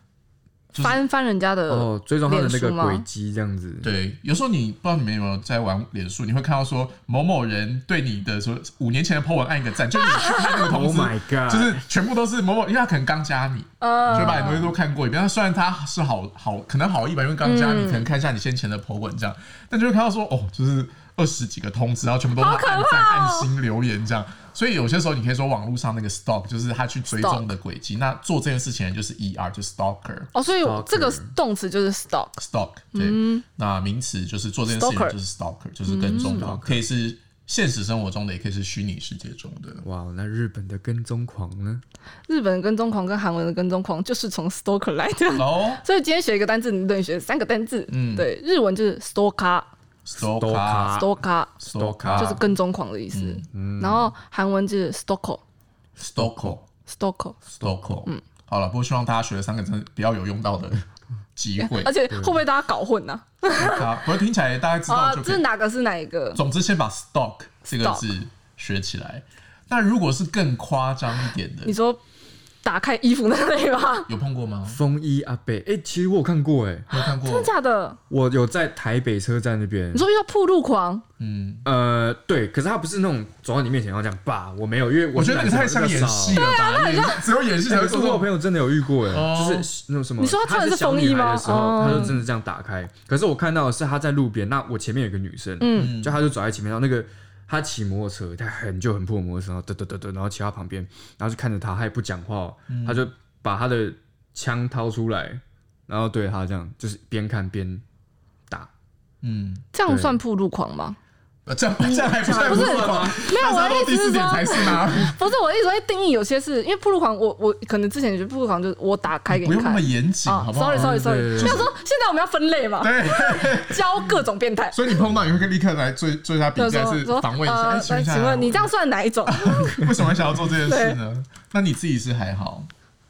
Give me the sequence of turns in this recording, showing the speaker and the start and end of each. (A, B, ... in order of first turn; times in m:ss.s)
0:00.7-0:01.0 A
0:00.8-0:03.0 B
0:01.7-0:03.9 C
0:03.8-0:30.3 A
0:10.0-0:10.6 B
0:10.6-0:11.8 C
0:13.8-0:14.7 B
0:14.1-0:14.7 C
0:17.4-0:18.1 B
0:22.4-0:23.5 B
0:27.1-0:27.5 B
0:30.3-0:32.3 B
0:30.6-0:31.3 C
0:32.4-0:39.8 A
0:32.9-0:33.4 B
0:34.7-0:35.2 B
0:35.9-0:36.6 B
0:36.1-0:36.8 C
0:39.8-0:41.8 C
0:42.3-0:49.7 B
0:45.4-0:45.8 A
0:47.9-0:48.3 A
0:50.0-0:51.0 A
0:50.2-0:51.1 C
0:51.0-0:51.6 B
0:51.6-0:52.4 A
0:51.8-0:52.4 C
0:52.2-0:55.4 B
0:53.1-0:53.4 A
0:53.5-0:54.1 C
0:56.0-0:56.6 A
0:56.2-0:56.6 C
0:56.9-0:57.4 B
0:57.6-1:00.8 A
0:57.6-0:57.9 C
1:01.4-1:02.0 A
1:01.6-1:03.9 B
1:02.1-1:02.4 C
1:03.5-1:05.4 A
1:04.9-1:06.4 B
1:06.4-1:11.8 A
1:11.6-1:12.0 B
1:12.6-1:14.1 B
1:14.1-1:14.8 A
1:14.7-1:16.9 C
1:16.9-1:17.5 A
1:17.0-1:18.0 B
1:18.1-1:20.0 C
1:19.9-1:21.0 B
1:21.2-1:21.6 A
1:21.6-1:26.4 C
1:25.1-1:28.3 A
1:26.3-1:27.2 B
1:27.6-1:47.8 C
1:29.1-1:29.7 A
1:30.2-1:32.2 B
1:35.6-1:35.9 B
1:35.8-1:36.2 A
1:42.7-1:43.0 A
1:49.2-1:49.7 A
1:49.7-1:51.0 B
1:49.9-1:50.2 C
1:51.5-1:55.2 A
1:51.8-1:53.3 C
1:52.3-2:05.0 B
1:59.3-2:01.7 A
2:00.7-2:01.7 C
2:02.8-2:04.1 A
2:04.7-2:08.7 A
2:06.6-2:09.9 B
2:09.3-2:12.7 A
2:09.8-2:10.1 C
2:10.7-2:11.0 B